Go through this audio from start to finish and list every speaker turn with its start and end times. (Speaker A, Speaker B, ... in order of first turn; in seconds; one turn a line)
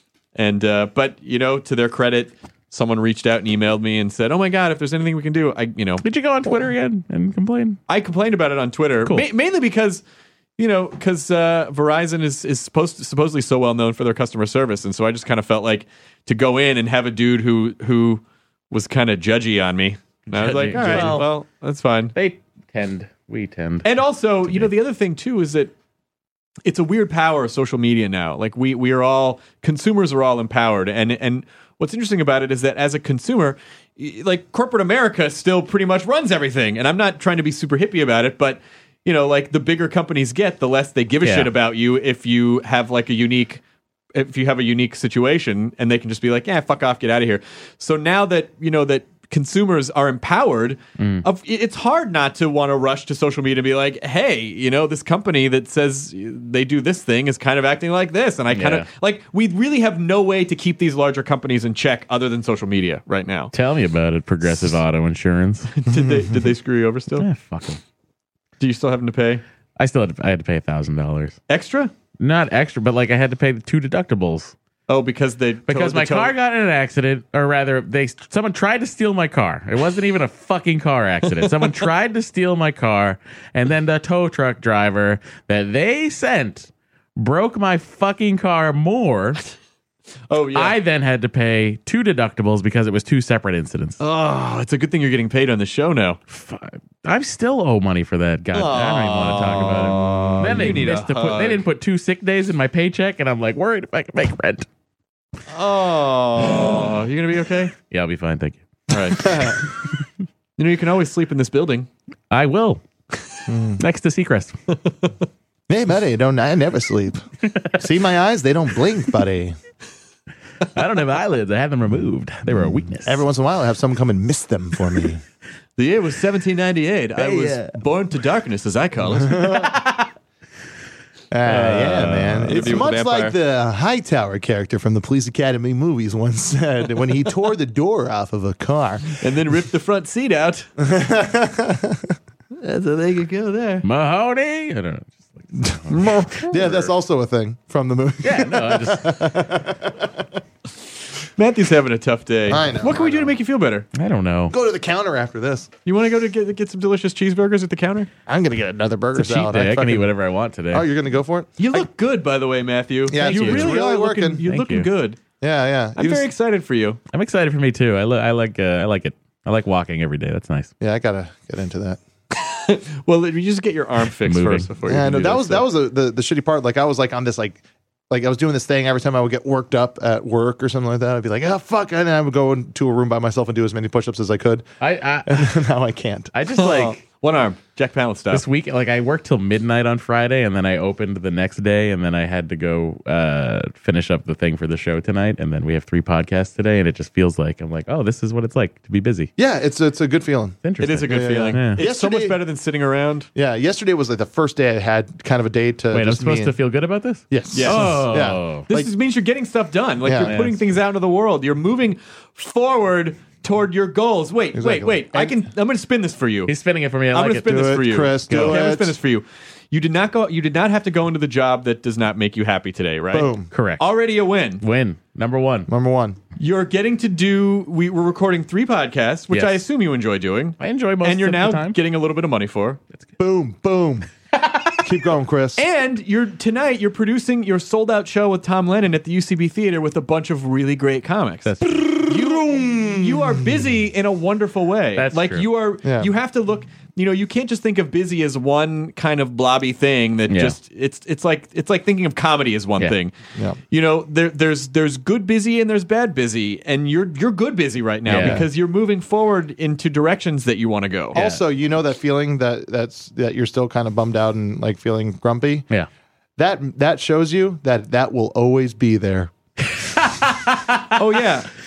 Speaker A: 0.3-6.0
Speaker B: 6.0-7.8
Speaker A: 7.9-10.0
Speaker A: 10.6-22.1
Speaker B: 20.3-21.3
Speaker C: 20.8-21.1
Speaker B: 22.1-23.9
Speaker A: 23.8-25.7
Speaker B: 24.4-24.7
Speaker A: 26.6-43.6
Speaker B: 41.2-41.5
Speaker A: 44.1-63.5
Speaker B: 51.0-51.2
Speaker B: 58.5-58.9
Speaker B: 63.5-65.7
Speaker A: 65.7-67.3
Speaker C: 65.9-66.4
Speaker B: 67.2-67.8
Speaker A: 68.6-69.4
Speaker B: 69.8-71.3
Speaker A: 71.5-71.9
Speaker B: 72.2-74.5
Speaker A: 74.9-76.3
Speaker B: 75.7-89.4
Speaker A: 81.3-81.9
Speaker A: 90.3-90.8
Speaker B: 90.5-94.0
Speaker A: 94.0-96.2
Speaker B: 96.3-104.7
Speaker A: 98.5-101.6
Speaker A: 105.5-107.7
Speaker B: 107.9-108.6
Speaker A: 108.9-109.5
Speaker C: 109.2-109.6
Speaker B: 109.2-109.6
Speaker A: 110.6-111.9
Speaker B: 112.3-112.8
Speaker C: 113.5-113.8
Speaker B: 113.8-114.5
Speaker A: 114.7-115.1
Speaker C: 115.7-117.2
Speaker C: 117.7-119.5
Speaker B: 120.7-123.2
Speaker C: 122.5-125.2
Speaker A: 125.8-129.6
Speaker B: 127.2-127.7
Speaker C: 129.2-129.7
Speaker B: 129.5-130.1
Speaker C: 131.3-139.2
Speaker B: 131.4-132.8
Speaker A: 132.4-133.3
Speaker A: 139.2-140.7
Speaker C: 140.8-142.1
Speaker A: 142.6-143.8
Speaker B: 143.8-146.4
Speaker C: 145.6-150.2
Speaker A: 145.9-146.9
Speaker B: 148.2-149.3
Speaker A: 151.4-153.9
Speaker C: 152.5-153.3
Speaker B: 153.9-154.5
Speaker C: 154.5-155.7
Speaker A: 155.8-158.1
Speaker C: 158.3-160.1
Speaker B: 159.1-160.8
Speaker C: 160.7-161.8
Speaker A: 161.6-165.2
Speaker C: 163.1-164.4
Speaker B: 163.2-163.8
Speaker B: 164.4-164.9
Speaker C: 165.4-166.3
Speaker A: 166.0-167.0
Speaker B: 167.1-170.7
Speaker C: 170.8-172.0
Speaker A: 172.3-175.7
Speaker B: 174.2-174.7
Speaker C: 174.8-184.7
Speaker B: 184.8-185.5
Speaker C: 185.3-186.3
Speaker B: 186.3-187.0
Speaker A: 186.5-188.4
Speaker B: 188.3-199.3
Speaker C: 199.4-202.4
Speaker B: 200.6-201.8
Speaker A: 200.8-203.3
Speaker C: 203.3-206.6
Speaker B: 205.9-208.6
Speaker C: 207.3-208.9
Speaker A: 207.5-208.1
Speaker A: 208.7-216.5
Speaker C: 210.0-210.3
Speaker B: 210.2-210.6
Speaker C: 214.5-215.4
Speaker B: 216.5-217.8
Speaker A: 217.1-224.6
Speaker C: 217.5-219.0
Speaker B: 218.3-218.6
Speaker C: 223.1-223.5
Speaker B: 223.5-223.8
Speaker B: 224.6-225.7
Speaker C: 225.7-226.2
Speaker A: 226.4-232.8
Speaker B: 229.3-229.6
Speaker B: 230.6-231.8
Speaker C: 233.2-234.1
Speaker B: 234.4-234.7
Speaker C: 234.8-235.6
Speaker A: 235.6-241.6
Speaker B: 241.4-242.0
Speaker A: 242.1-253.1
Speaker C: 242.3-243.5
Speaker B: 245.0-245.5
Speaker C: 245.8-246.1
Speaker B: 250.3-250.6
Speaker A: 253.7-261.1
Speaker B: 258.1-258.4
Speaker C: 258.1-258.5
Speaker C: 261.1-265.7
Speaker B: 261.1-261.4
Speaker C: 266.4-269.3
Speaker B: 269.8-270.9
Speaker A: 270.9-271.5